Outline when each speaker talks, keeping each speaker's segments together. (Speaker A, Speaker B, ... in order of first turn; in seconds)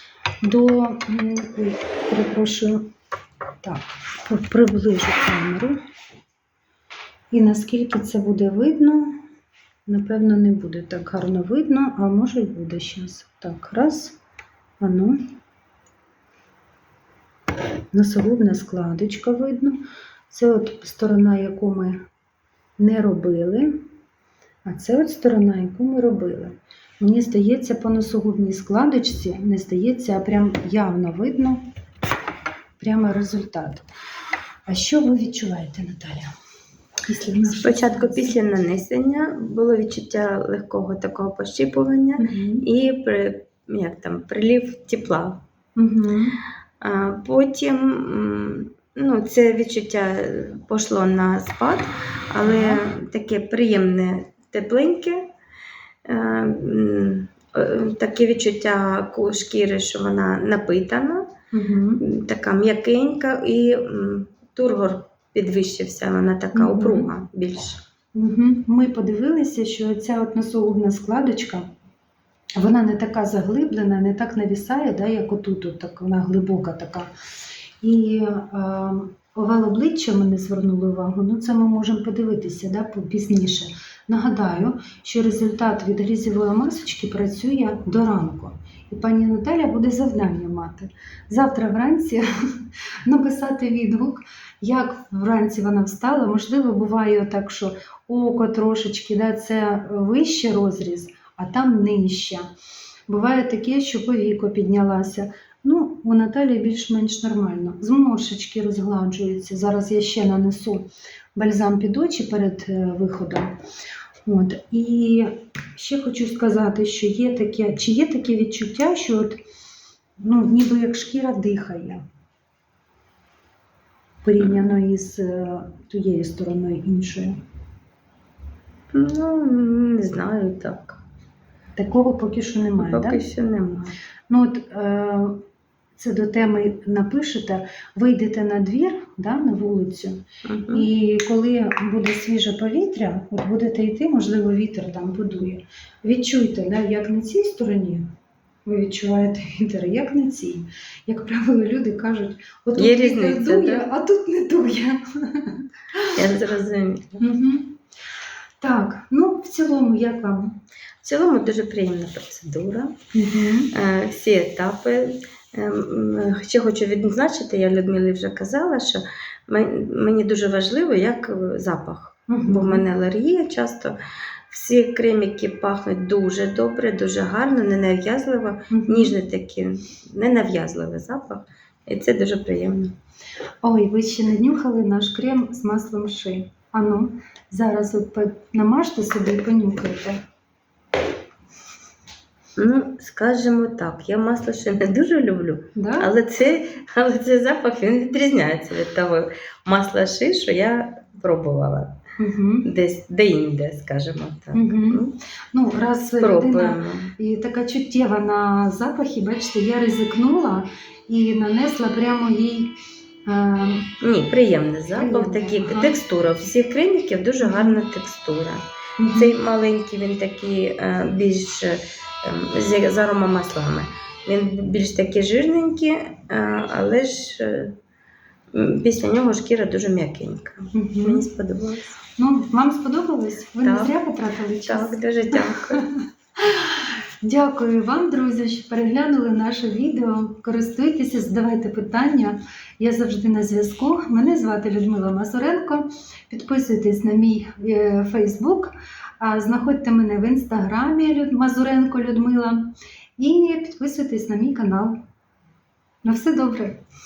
Speaker A: 0.4-2.9, 3.6-5.8, 7.3-9.2, 9.9-14.2, 14.8-15.2, 17.9-22.0, 22.8-23.8, 24.6-31.6, 32.8-33.9, 34.7-36.3, 37.1-38.4, 42.2-42.6, 45.8-46.4, 52.5-52.8, 61.5-62.0, 66.5-67.1, 68.2-71.7, 72.6-77.1, 77.8-102.5, 103.1-113.5, 114.3-119.4, 120.2-122.0, 124.2-127.4, 131.8-133.2, 134.3-135.4, 136.0-148.1, 148.7-156.1, 157.2-157.8, 158.6-160.6, 163.1-163.7, 172.3-172.8, 178.7-179.2, 183.6-190.2, 195.8-196.1, 202.2-202.7, 204.5-212.7, 213.3-213.9, 214.9-216.0, 217.4-217.8, 219.0-219.3, 230.7-231.3, 232.2-255.0, 256.0-256.8
Speaker B: 37.4-45.4, 46.8-55.2, 56.0-61.3, 62.0-67.8, 124.4-124.7, 128.9-131.0, 132.8-133.9, 140.4-140.9, 152.8-153.9, 156.2-157.2, 161.0-162.9, 163.7-174.0, 174.5-182.9, 192.6-201.9, 202.6-205.1, 206.2-207.1, 214.0-218.6, 219.1-227.7, 228.5-232.0, 233.6-233.9, 234.7-235.8